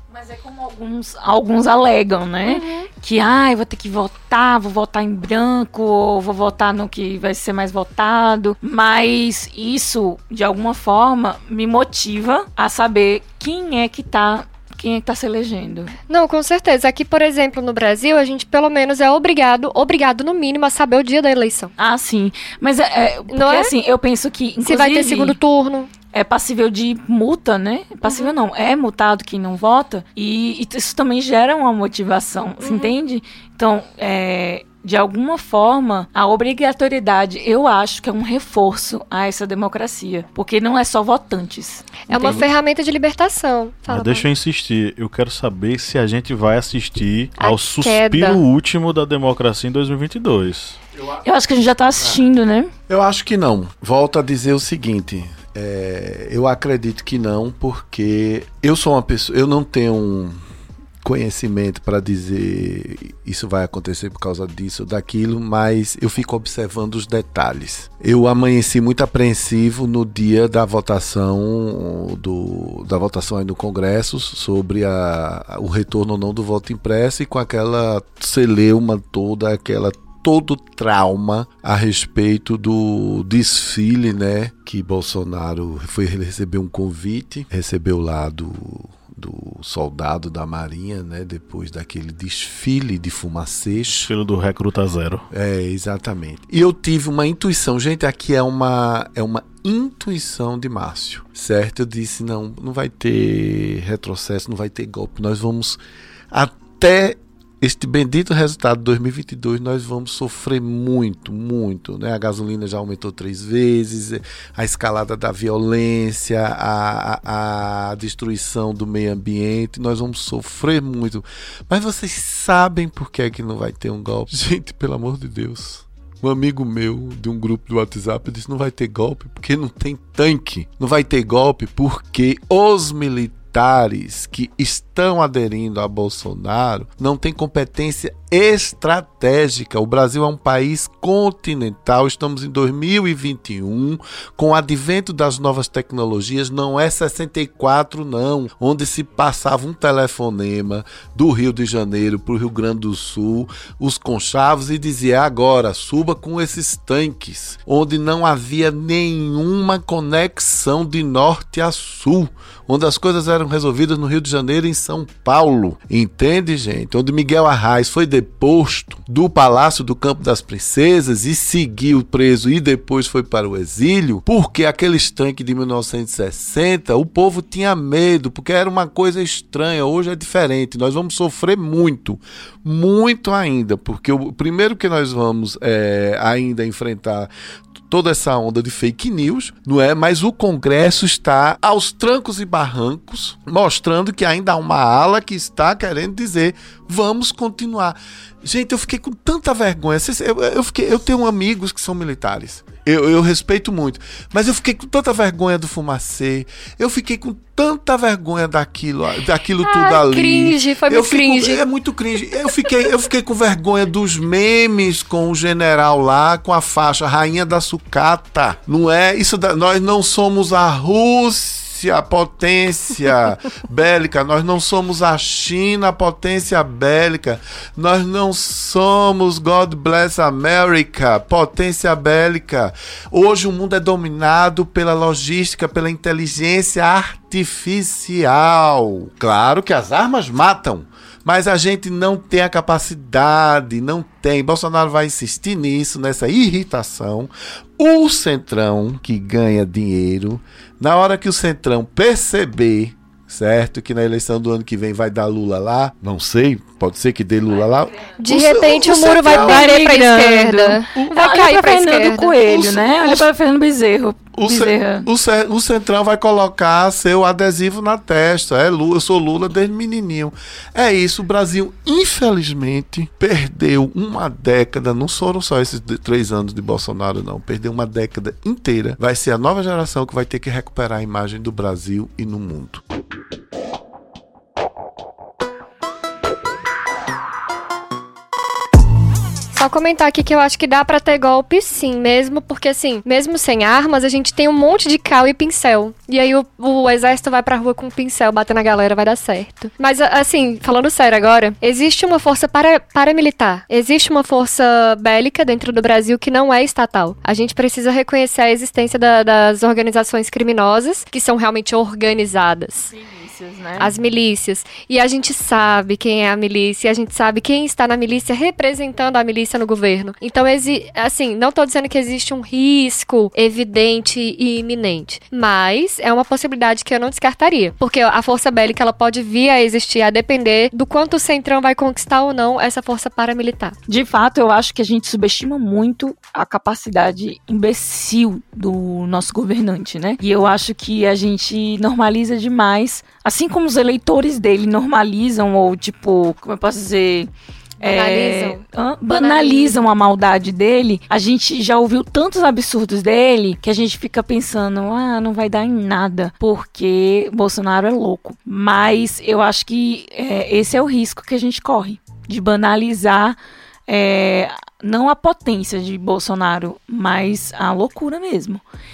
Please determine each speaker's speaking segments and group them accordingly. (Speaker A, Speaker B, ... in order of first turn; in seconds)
Speaker A: 0.1-15.9, 21.8-25.4, 26.1-42.5, 51.2-52.7, 259.3-265.1, 312.9-313.9, 333.9-363.4, 363.9-368.6
Speaker B: 2.5-2.9, 16.1-21.7, 23.3-23.7, 24.6-25.9, 28.1-28.3, 32.6-32.9, 42.1-44.3, 47.4-48.4, 209.6-211.6, 258.2-262.4, 289.5-312.9, 313.8-333.8, 347.8-348.6, 349.2-349.8
Speaker C: 43.9-50.8, 94.0-95.2
Speaker D: 52.9-60.4, 61.0-94.1, 95.3-105.8, 106.3-187.3, 187.9-259.7, 262.4-263.3, 264.3-282.8